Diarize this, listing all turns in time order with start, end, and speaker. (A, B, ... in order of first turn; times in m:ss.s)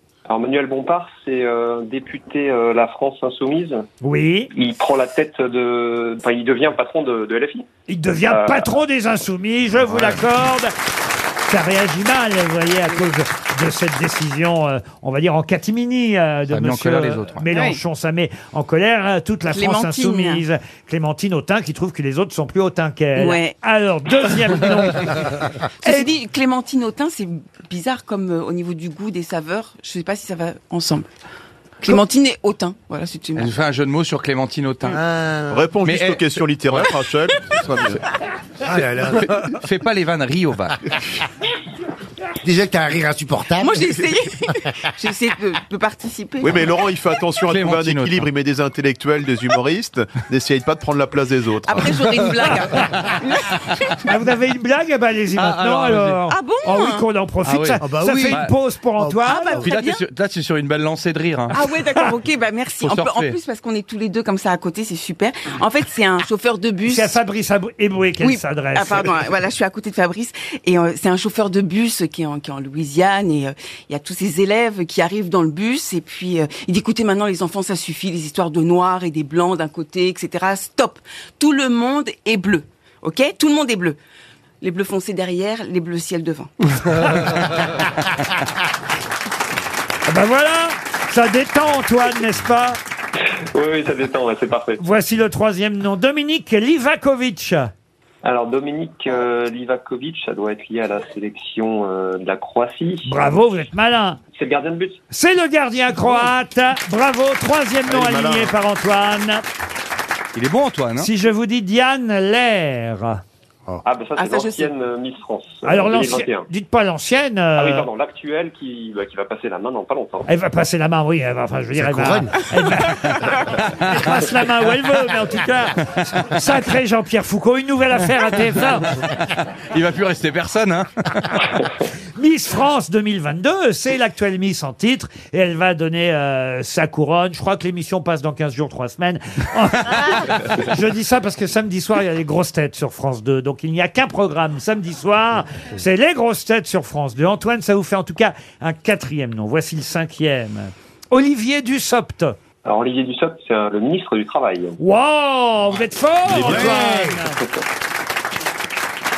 0:00.3-0:03.8 A
0:04.0-0:04.5 B
0:04.5-0:07.7 A
0:07.9-0:10.7 B
0:08.3-0:08.7 A
0:11.5-0:26.1 B
0:16.5-0:17.4 C
0:17.5-0:17.8 D
0:19.5-0:20.4 D
0:23.2-0:23.6 D
0:25.8-0:31.1 D
0:31.8-0:33.5 D
0:33.4-0:35.1 C
0:34.9-0:35.6 E
0:35.5-0:38.0 F
0:35.8-0:36.9 C
0:38.6-0:41.0 C
0:38.8-0:39.2 E
0:42.4-0:43.8 E
0:43.6-0:46.7 D
0:46.4-0:52.0 F
0:47.5-0:48.3 C
0:51.6-0:54.0 D
0:54.0-0:59.6 B
0:55.4-0:56.2 C
0:56.2-0:57.0 D
0:57.4-0:58.5 C
0:57.8-0:58.2 E
0:59.2-1:00.0 D
0:59.6-1:01.6 C
1:01.5-1:07.2 D
1:02.8-1:03.4 C
1:06.9-1:09.2 B
1:08.2-1:24.0 D
1:24.6-1:26.7 D
1:26.9-1:28.1 B
1:30.1-1:32.8 B
1:33.2-1:34.8 A
1:34.8-1:37.7 B
1:38.2-1:43.1 A
1:43.0-1:44.2 B
1:44.3-1:45.0 A
1:45.1-1:49.4 B
1:47.9-1:48.5 F
1:50.3-1:51.1 C
1:51.0-1:53.2 B
1:53.8-1:56.5 A
1:54.2-1:54.8 D
1:55.6-1:57.9 B
1:57.6-2:00.3 A
2:00.3-2:09.0 B
2:01.8-2:02.3 E
2:09.7-2:11.4 C
2:12.2-2:32.4 B
2:32.6-2:34.8 A
2:34.8-2:37.4 B
2:36.3-2:36.8 F
2:36.5-2:37.2 E
2:37.4-2:37.6 A